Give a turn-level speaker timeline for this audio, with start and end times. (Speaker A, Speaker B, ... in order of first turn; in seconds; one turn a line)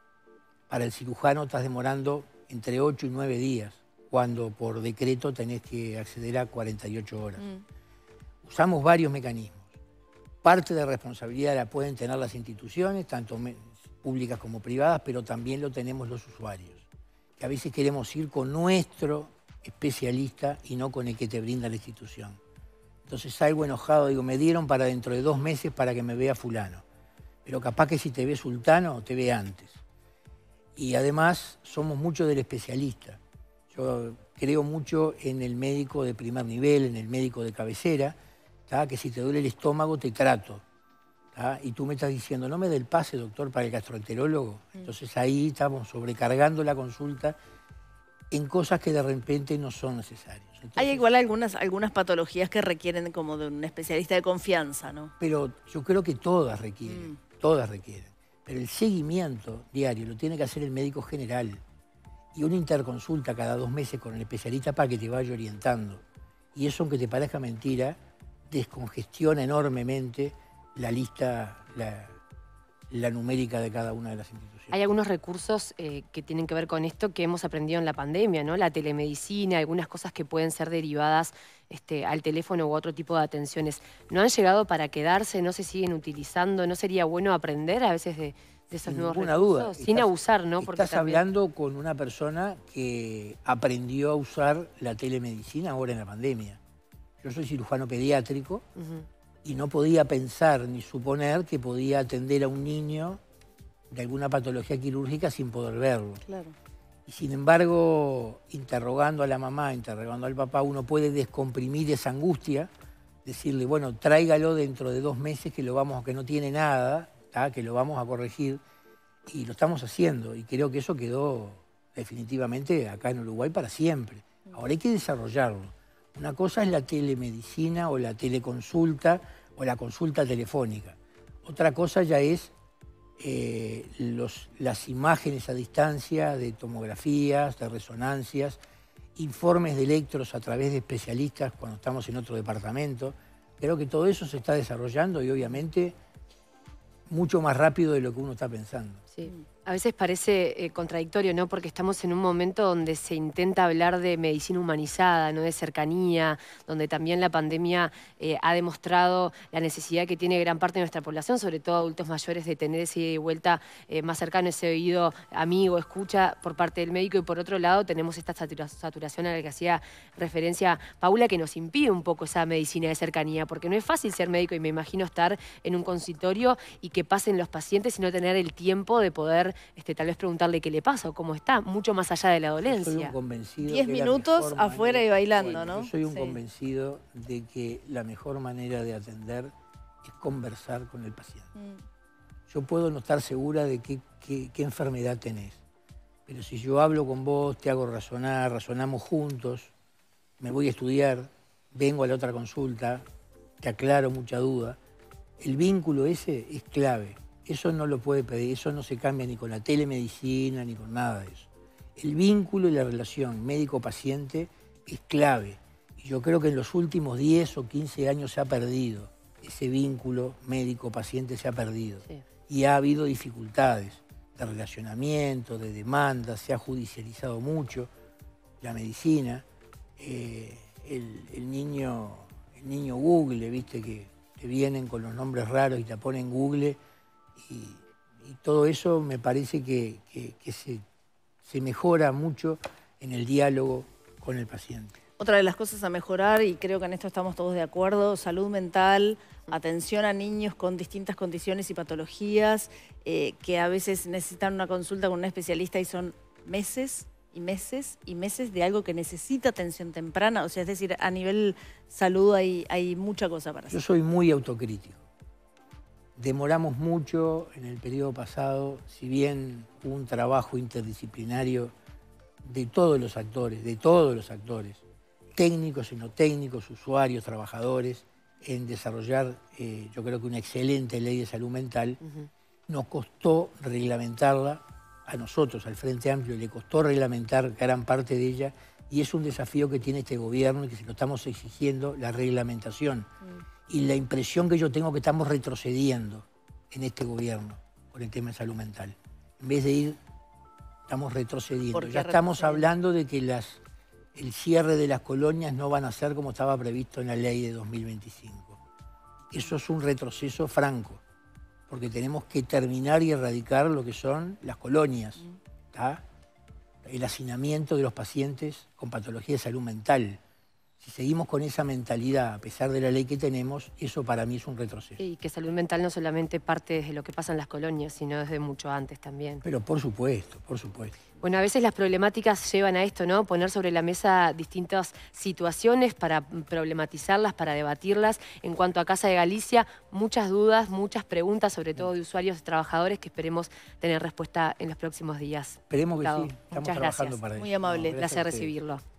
Speaker A: 0.7-7.5
Speaker A: 8.4-9.7
Speaker A: 10.4-16.9
Speaker A: 17.4-22.4
Speaker A: 23.1-26.8
Speaker A: 27.4-29.8
Speaker A: 30.8-38.1
Speaker A: 38.7-40.6
Speaker A: 41.3-47.4
Speaker A: 48.3-51.0
Speaker B: 50.8-55.1
Speaker A: 55.2-61.6
Speaker B: 56.8-57.1
Speaker A: 62.3-66.0
Speaker A: 66.5-68.0
Speaker A: 68.5-72.2
Speaker A: 72.9-74.7
Speaker C: 74.7-91.2
Speaker A: 88.8-96.6
Speaker A: 97.2-98.7
Speaker C: 98.8-99.0
Speaker A: 99.4-103.2
Speaker A: 103.9-106.2
Speaker B: 106.2-106.5
Speaker A: 107.0-112.7
Speaker A: 113.2-118.6
Speaker A: 119.3-132.5
Speaker A: 133.2-138.6
Speaker A: 139.1-145.9
Speaker A: 147.1-149.0
Speaker C: 149.1-183.1
Speaker A: 182.6-189.5
Speaker B: 183.6-186.4
Speaker A: 190.0-191.5
Speaker A: 192.5-195.6
Speaker A: 196.3-199.7
Speaker A: 200.4-203.0
Speaker A: 203.6-204.8
Speaker A: 205.4-227.9
Speaker A: 228.6-229.4
Speaker A: 230.0-236.8
Speaker A: 237.3-240.8
Speaker A: 241.4-245.0
Speaker B: 245.2-263.8
Speaker A: 263.7-265.0
Speaker A: 266.1-271.7
Speaker A: 272.4-274.8
Speaker A: 275.3-282.0
Speaker A: 282.7-293.1
Speaker A: 293.7-300.0
Speaker A: 300.9-303.6
Speaker B: 301.7-302.7
Speaker A: 304.1-308.6
Speaker A: 309.3-311.0
Speaker A: 311.7-316.0
Speaker A: 316.8-320.2
Speaker A: 320.8-325.0
Speaker C: 325.0-329.4
Speaker A: 329.4-331.0
Speaker C: 331.2-347.2
Speaker A: 345.7-348.5
Speaker B: 347.4-348.0
Speaker C: 347.9-348.8